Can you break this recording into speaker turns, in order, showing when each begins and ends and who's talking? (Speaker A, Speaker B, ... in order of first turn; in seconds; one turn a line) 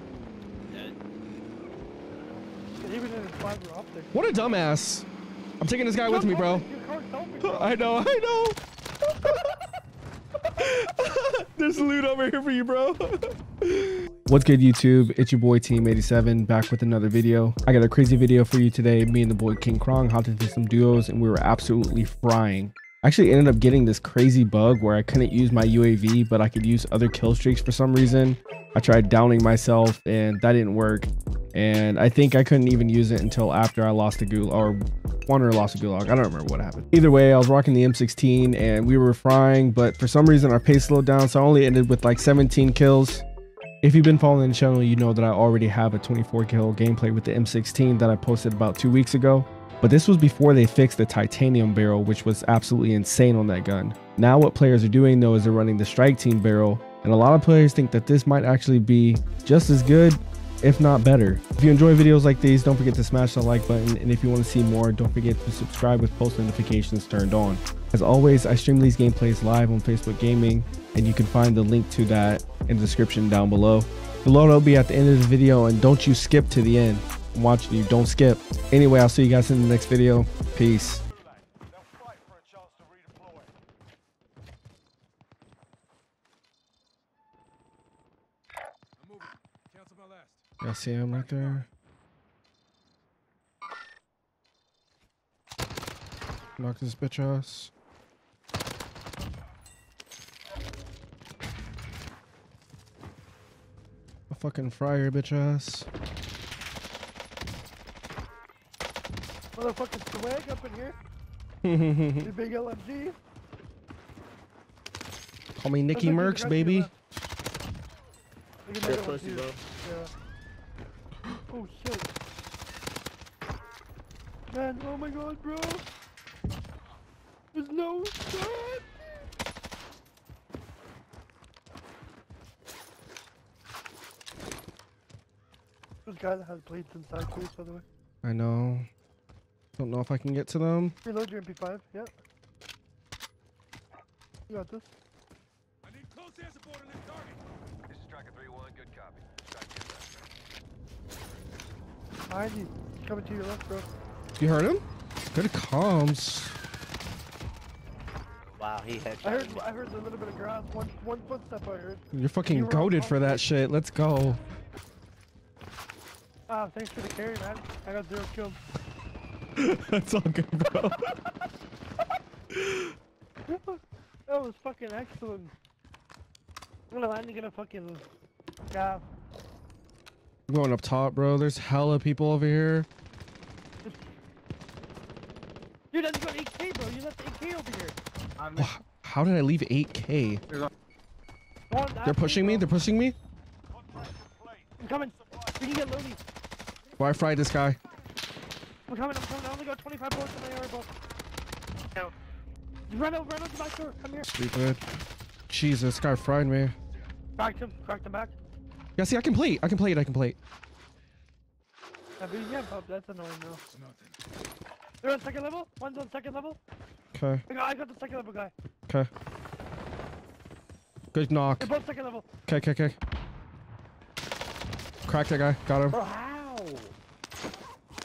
Speaker A: 2.8-4.2
Speaker B: 4.1-5.0
Speaker B: 5.6-6.6
Speaker A: 6.0-8.0
Speaker B: 7.4-9.6
Speaker B: 10.5-43.2
Speaker B: 43.8-81.0
Speaker C: 89.1-90.3
Speaker B: 90.6-91.7
Speaker B: 96.6-97.7
Speaker B: 104.3-105.9
Speaker A: 109.5-111.0
Speaker B: 111.6-112.3
Speaker A: 112.2-113.2
Speaker B: 115.6-116.9
Speaker A: 115.9-116.9
Speaker A: 118.7-120.1
Speaker D: 118.8-119.6
Speaker A: 121.5-122.1
Speaker A: 124.5-125.8
Speaker A: 127.5-129.2
Speaker A: 136.1-137.8
Speaker B: 138.2-138.9
Speaker B: 139.8-140.9
Speaker A: 141.0-142.1
Speaker A: 144.5-144.9
Speaker C: 145.8-147.4
Speaker E: 147.9-150.1
Speaker A: 152.3-153.9
Speaker B: 154.4-156.6
Speaker D: 158.6-159.6
Speaker A: 159.2-163.4
Speaker B: 162.1-164.4
Speaker A: 166.5-168.6
Speaker B: 169.6-171.1
Speaker B: 172.5-172.9
Speaker A: 173.4-175.5
Speaker A: 176.9-178.0
Speaker A: 178.7-179.0
Speaker B: 180.5-182.9
Speaker A: 185.9-188.0
Speaker B: 188.5-190.4
Speaker A: 191.7-192.7
Speaker B: 192.0-193.2
Speaker A: 194.8-196.2
Speaker B: 197.0-197.8
Speaker A: 198.9-200.9
Speaker A: 202.9-204.2
Speaker B: 204.2-204.8
Speaker B: 205.5-206.7
Speaker A: 207.4-208.3
Speaker B: 209.0-210.4
Speaker A: 212.2-213.6
Speaker C: 213.8-214.1
Speaker A: 215.0-216.6
Speaker B: 217.1-217.4
Speaker A: 217.5-218.5
Speaker B: 221.1-221.7
Speaker A: 221.6-222.2
Speaker B: 222.4-223.0
Speaker B: 225.1-226.0
Speaker D: 225.9-226.9